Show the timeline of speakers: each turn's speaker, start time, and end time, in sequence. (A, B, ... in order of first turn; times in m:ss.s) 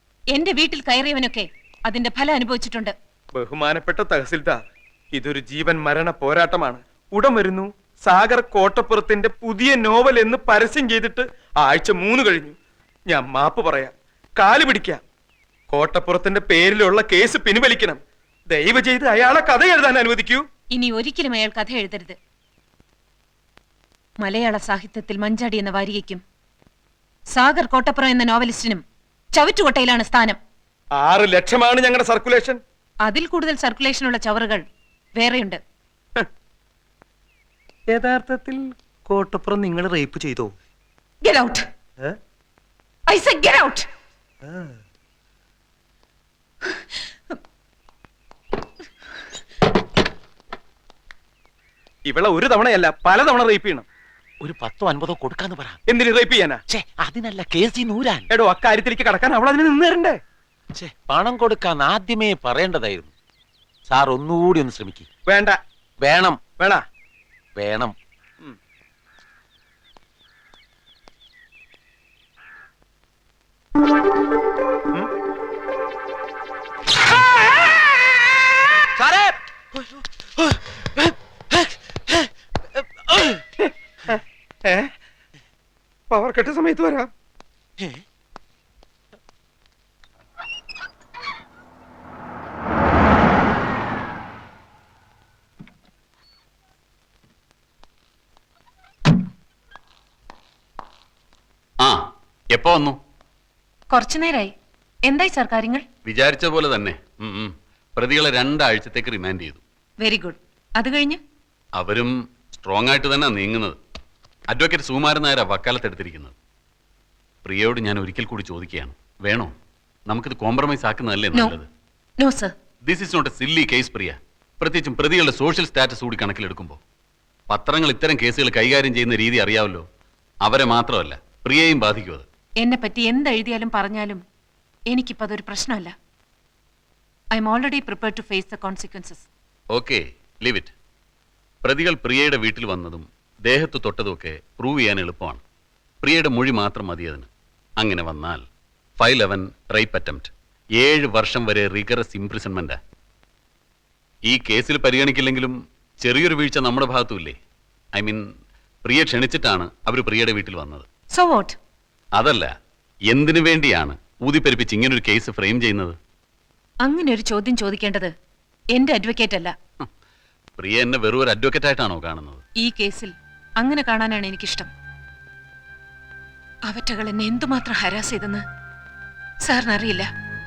0:00.3-0:02.9 A
0:03.4-0:04.6 B
0:05.2-0:12.5 B
0:13.1-0:15.0 B
0:15.7-0:18.0 B
0:18.5-0:20.4 B
0:20.7-0:22.2 A
0:24.2-0:26.2 A
0:27.3-0:30.4 A
0:31.0-0:32.6 B
0:33.0-0:34.6 A
0:35.2-0:35.6 A
0:37.9-0:40.5 B
0:41.2-0:41.6 A
0:43.1-0:43.9 A
0:52.1-0:53.8 B
0:54.4-0:55.8 C
0:55.9-0:56.6 B
0:56.7-0:58.2 C
0:58.3-1:00.2 B
1:00.7-1:03.1 C
1:03.9-1:05.0 C
1:05.3-1:05.6 B
1:06.0-1:06.4 C
1:06.5-1:06.8 B
1:07.5-1:07.9 C
1:19.0-1:19.4 B
1:20.4-1:22.3 B
1:23.1-1:24.9 B
1:26.1-1:27.1 B
1:42.5-1:43.0 D
1:43.9-1:44.5 A
1:45.0-1:45.8 A
1:46.0-1:49.6 D
1:50.0-1:51.2 A
1:51.7-1:53.8 D
1:54.5-1:56.3 D
1:57.4-1:59.5 D
2:00.1-2:01.6 D
2:02.2-2:02.5 A
2:02.8-2:06.8 D
2:07.5-2:09.8 D
2:10.4-2:12.2 D
2:12.6-2:14.2 A
2:14.9-2:15.9 A
2:17.3-2:19.3 A
2:19.7-2:20.7 D
2:21.6-2:25.4 D
2:26.0-2:28.4 D
2:29.0-2:32.8 D
2:34.2-2:37.4 D
2:37.9-2:38.2 D
2:38.8-2:40.8 D
2:41.1-2:41.6 A
2:42.1-2:42.5 D
2:43.1-2:45.9 D
2:46.8-2:48.1 A
2:48.7-2:49.5 A
2:50.6-2:52.4 D
2:52.6-2:54.7 A
2:56.6-2:58.4 A
2:59.4-3:00.1 A